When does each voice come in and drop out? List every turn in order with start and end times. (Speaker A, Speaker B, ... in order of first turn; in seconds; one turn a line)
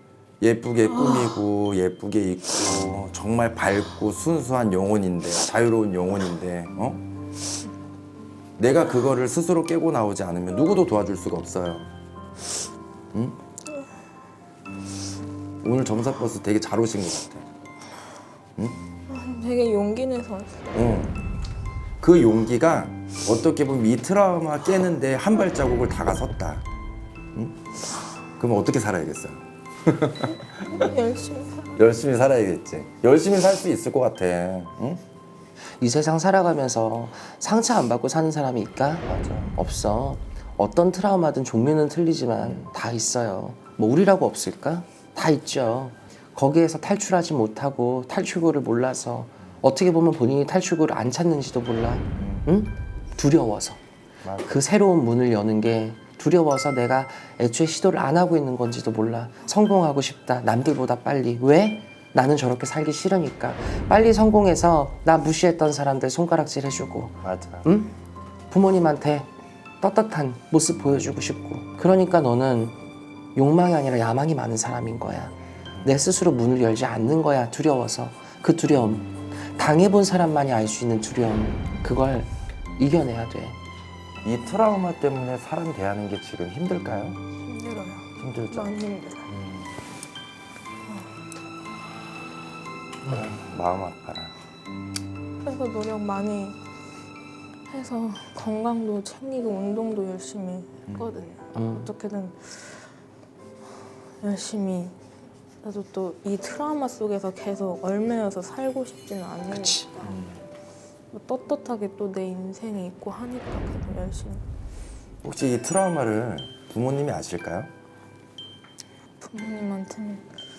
Speaker A: 0.4-7.0
Speaker A: 8.6-11.9
Speaker A: 13.1-13.4
Speaker A: 15.6-17.4
Speaker B: 19.1-20.7
Speaker A: 20.7-21.2
Speaker A: 22.0-26.6
Speaker A: 28.4-30.9
Speaker B: 30.6-31.8
Speaker A: 31.8-35.0
Speaker C: 35.8-53.8
Speaker A: 39.0-39.6
Speaker A: 52.1-52.5
Speaker A: 54.2-54.6
Speaker C: 54.4-67.9
Speaker A: 67.2-67.7
Speaker C: 68.5-69.3
Speaker C: 69.8-72.8
Speaker C: 73.3-83.5
Speaker A: 84.2-87.2
Speaker B: 87.4-89.3
Speaker A: 88.2-88.8
Speaker A: 89.3-89.7
Speaker A: 93.1-94.3
Speaker B: 95.4-96.6
Speaker B: 97.7-102.9
Speaker A: 100.9-101.3
Speaker C: 101.5-101.9
Speaker B: 104.2-104.9
Speaker B: 105.6-110.1
Speaker C: 109.5-109.9
Speaker A: 110.0-110.4
Speaker B: 111.1-114.4
Speaker A: 115.2-117.7
Speaker B: 119.2-120.3